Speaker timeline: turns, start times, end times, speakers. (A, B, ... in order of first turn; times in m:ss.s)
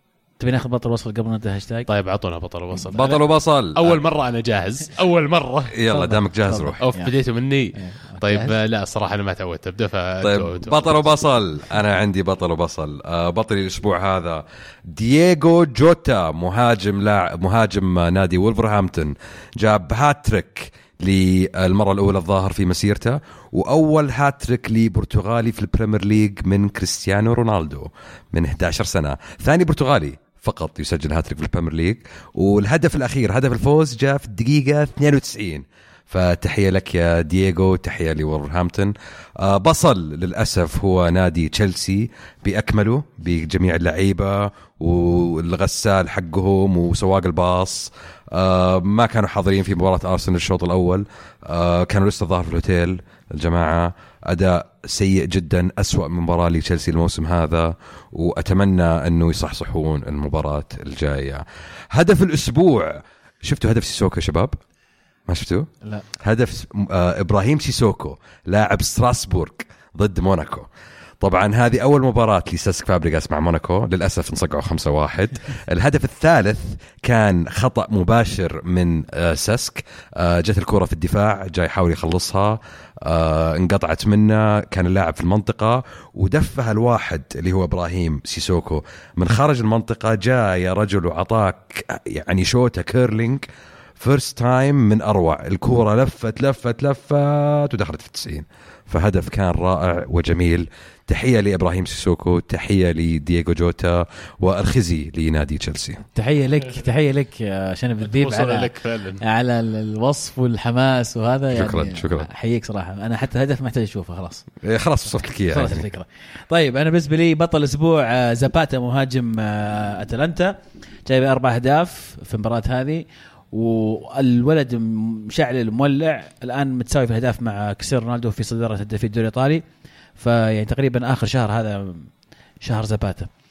0:00.4-0:01.9 A
0:01.9-0:05.8 B
0:02.8-0:03.0 A
0:02.9-0:04.0 C
0:05.7-0:06.8 C
0:05.9-0:07.1 A
0:06.8-0:11.0 B
0:07.7-0:08.6 A
0:10.2-1:04.6 C
1:05.3-1:10.7 C
1:11.2-1:33.4 C
1:34.0-1:46.0 C
1:46.1-1:54.5 A
1:48.1-1:49.2 B
1:51.5-1:52.3 C
1:54.6-1:55.9 C
1:55.5-2:09.6 A
2:10.2-2:12.1 A
2:12.6-2:13.3 A